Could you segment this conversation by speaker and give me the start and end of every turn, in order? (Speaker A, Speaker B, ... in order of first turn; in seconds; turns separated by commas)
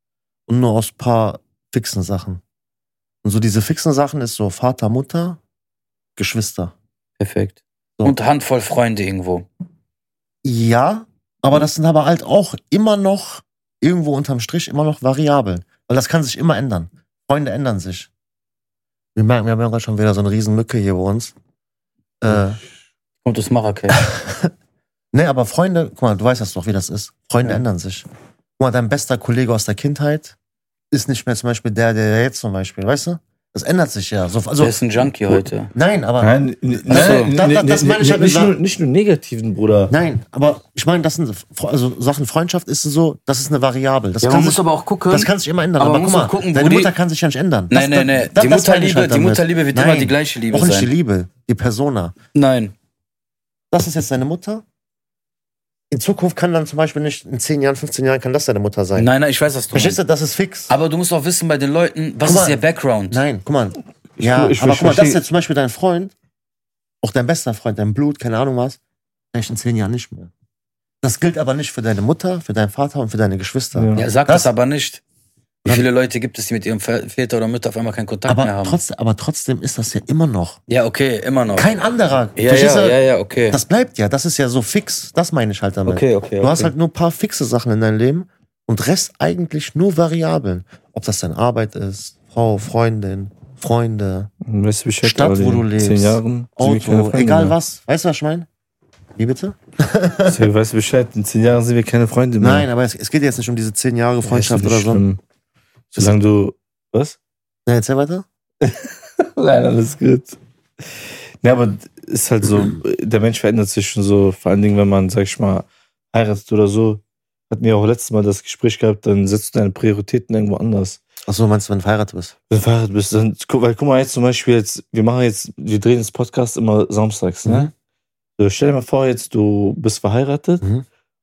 Speaker A: 0.5-2.4, Speaker A: 3.2-5.4, Speaker A: 6.2-6.7, Speaker B: 7.2-9.5, Speaker A: 10.4-18.1, Speaker A: 19.1-21.3, Speaker A: 22.2-22.6, Speaker B: 23.2-24.1, Speaker A: 23.9-24.5, Speaker A: 25.1-28.1, Speaker A: 28.6-30.4, Speaker A: 30.9-34.8, Speaker B: 34.6-35.7, Speaker A: 35.3-38.6, Speaker C: 36.2-39.9, Speaker B: 36.9-37.3, Speaker A: 39.9-52.1, Speaker B: 44.2-46.9, Speaker B: 47.7-50.9, Speaker B: 52.4-52.7, Speaker A: 53.7-54.6, Speaker A: 55.9-59.1, Speaker B: 59.0-60.0, Speaker A: 59.7-60.7, Speaker B: 60.7-63.2, Speaker A: 62.2-66.1, Speaker C: 64.2-65.2, Speaker A: 67.0-68.8, Speaker A: 69.3-70.3, Speaker A: 71.0-74.5, Speaker C: 73.7-74.1, Speaker B: 74.0-75.0, Speaker B: 75.6-78.8, Speaker A: 78.3-80.6, Speaker B: 80.7-81.7, Speaker A: 81.5-83.0, Speaker B: 82.4-83.6, Speaker A: 83.5-94.3, Speaker B: 85.9-86.7, Speaker C: 94.4-97.6, Speaker A: 95.0-98.5, Speaker A: 99.2-100.4, Speaker C: 100.3-102.7, Speaker A: 102.4-105.0, Speaker C: 104.2-105.2, Speaker C: 105.9-107.2, Speaker A: 107.7-108.3, Speaker C: 108.6-110.4, Speaker C: 111.4-121.0, Speaker A: 121.3-122.3, Speaker C: 122.5-127.7, Speaker A: 127.5-127.7, Speaker C: 128.4-130.6